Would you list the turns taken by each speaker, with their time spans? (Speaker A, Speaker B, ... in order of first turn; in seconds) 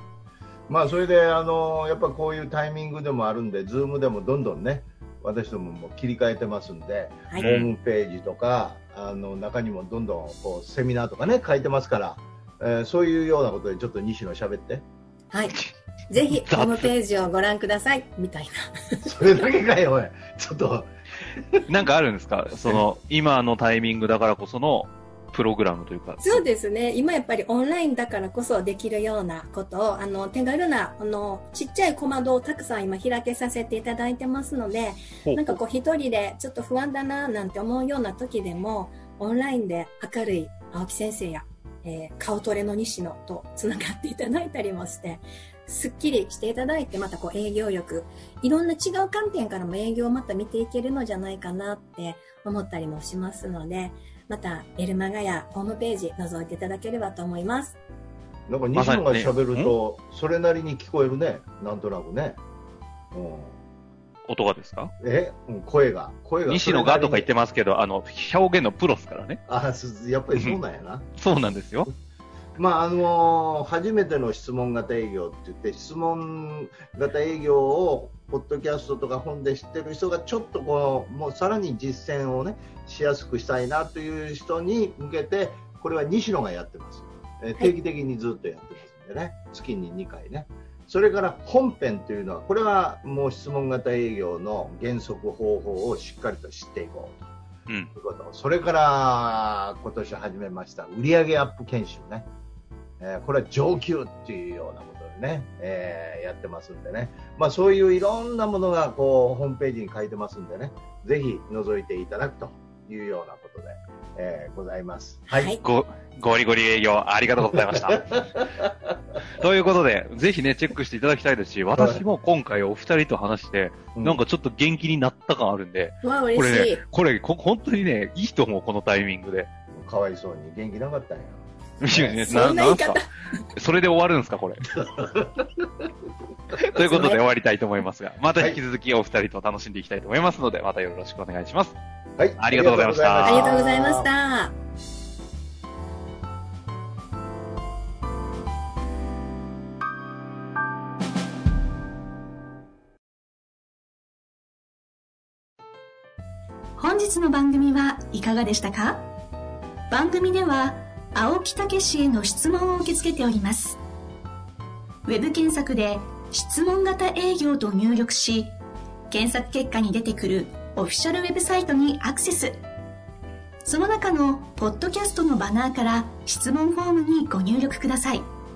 Speaker A: 0.7-14.8, 19.0-20.9, 58.5-62.4, 63.1-63.6, 65.0-67.3, 69.5-71.1, 72.5-97.2, 98.0-102.2, 103.0-115.6, 121.7-122.0, 123.9-124.2, 129.7-132.4, 134.7-135.8, 142.2-144.1
Speaker B: 7.4-7.7, 16.5-16.9, 21.7-26.4, 35.2-35.6, 58.8-59.7, 64.3-64.9, 66.5-69.4, 71.2-71.9, 115.6-118.2, 119.3-129.5, 131.8-133.0, 133.5-134.6, 136.6-141.8, 142.4-143.4
Speaker C: 16.1-19.1, 26.2-57.8, 115.3-115.6, 126.0-126.8, 132.2-133.1, 136.8-137.2, 143.2-144.6
Speaker D: 156.8-159.1, 159.9-163.8, 165.1-168.6, 169.1-172.6, 173.7-178.3